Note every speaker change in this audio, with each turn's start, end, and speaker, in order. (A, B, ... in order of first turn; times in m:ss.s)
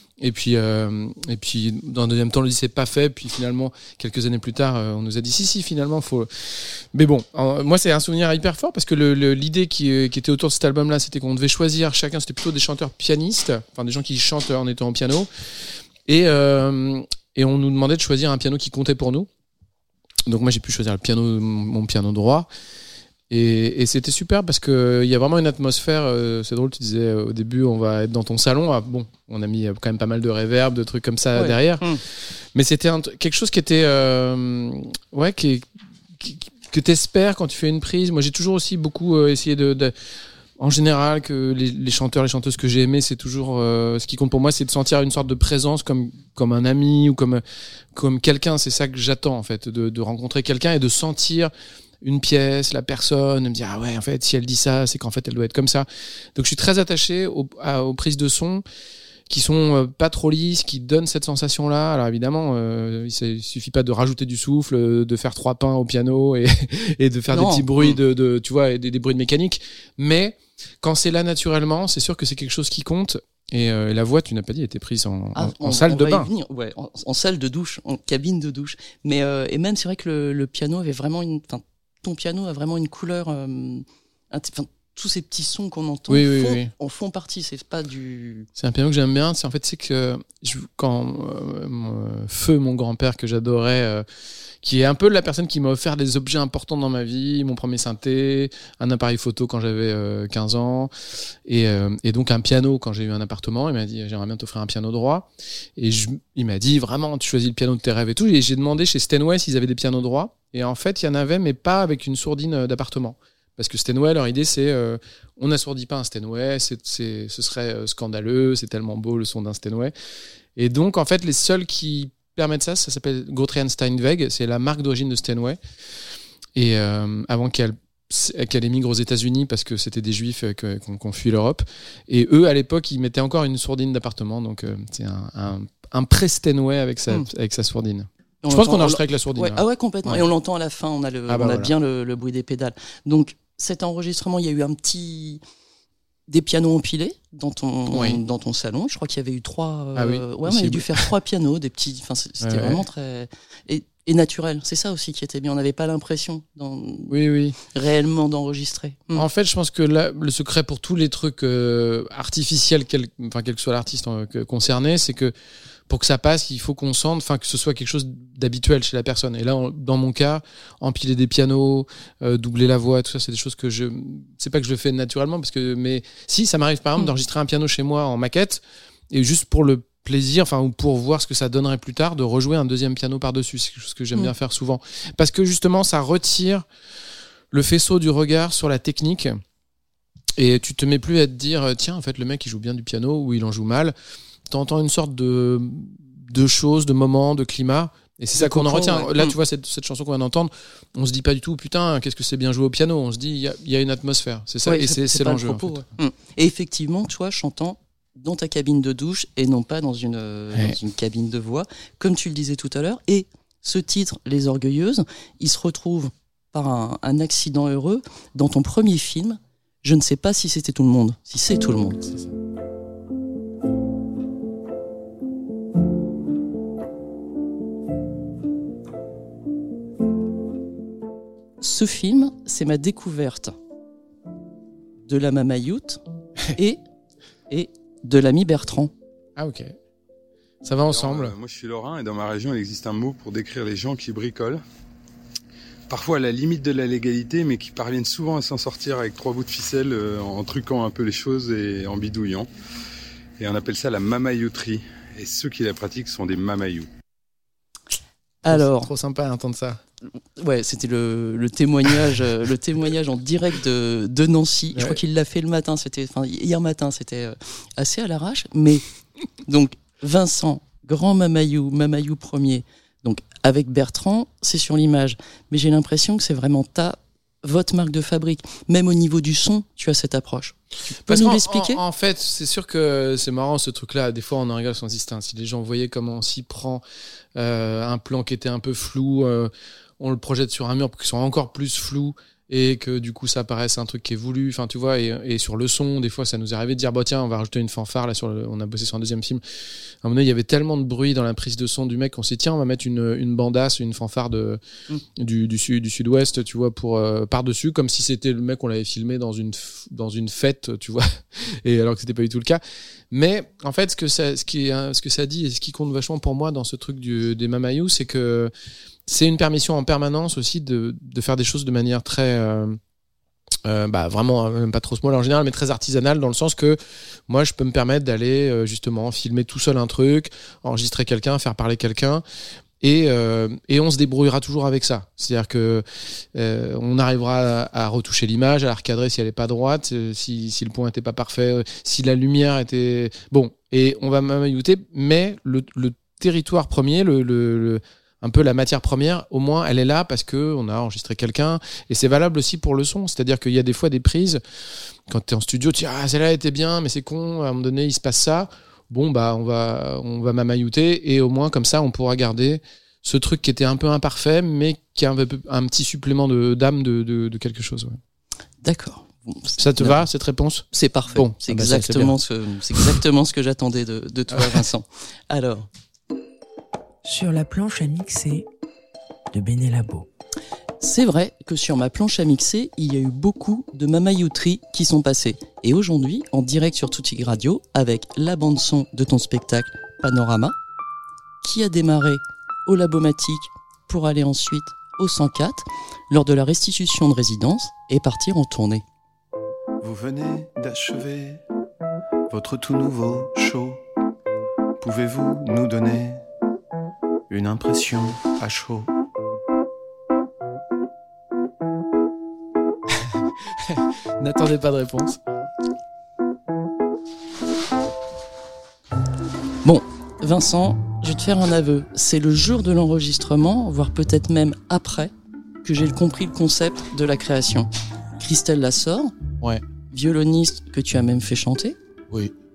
0:00.2-0:15.3 A
0:16.1-0:19.3 A
0:20.3-0:22.5 A
0:23.3-0:40.0 A
0:31.4-0:32.0 B
0:40.6-0:47.4 A
0:47.9-0:58.6 A
0:59.3-1:16.3 A
1:07.3-1:08.0 B
1:15.4-1:28.5 B
1:26.1-1:26.7 A
1:28.6-1:34.0 A
1:34.6-1:40.9 A
1:41.5-1:59.9 A
2:00.6-2:05.6 A
2:06.6-2:20.3 A
2:18.4-2:25.4 B
2:21.3-2:21.7 A
2:26.3-2:37.1 B
2:27.9-2:28.2 A
2:30.0-2:31.1 A
2:32.4-2:32.8 A
2:37.1-2:37.6 A
2:37.7-2:39.3 B
2:39.1-2:45.3 A
2:45.9-3:06.7 A
3:07.5-3:09.4 A
3:10.4-3:14.0 A
3:14.5-3:25.8 A
3:18.4-3:19.4 B
3:24.6-3:42.0 B
3:42.0-3:42.3 A
3:51.6-3:53.6 B
3:55.1-3:56.0 B
3:56.5-3:56.8 B
3:57.5-3:58.9 B
3:59.4-3:59.8 A
4:00.6-4:01.3 A
4:00.9-4:04.6 C
4:05.9-4:12.5 C
4:13.4-4:16.9 C
4:18.4-4:19.8 A
4:18.5-4:18.9 B
4:20.4-4:28.8 B
4:24.7-4:25.0 A
4:29.4-4:41.8 B
4:41.0-4:46.8 A
4:47.4-4:59.4 A
5:00.0-5:04.6 A
5:05.2-5:18.5 A
5:19.1-5:22.8 A
5:23.6-5:32.2 A
5:32.8-5:54.4 A
5:55.1-6:08.0 A
6:08.6-6:10.0 B
6:09.6-6:12.2 A
6:10.7-6:15.7 B
6:14.3-6:14.6 A
6:17.0-6:18.5 D
6:19.3-6:20.1 D
6:20.8-6:30.6 B
6:31.4-6:38.8 B
6:39.8-6:41.4 E
6:42.3-6:43.8 E
6:44.8-6:46.2 E
6:47.3-6:48.9 E
6:53.1-6:55.2 A
6:59.6-7:05.1 B
7:05.6-7:09.2 B
7:09.9-7:11.8 B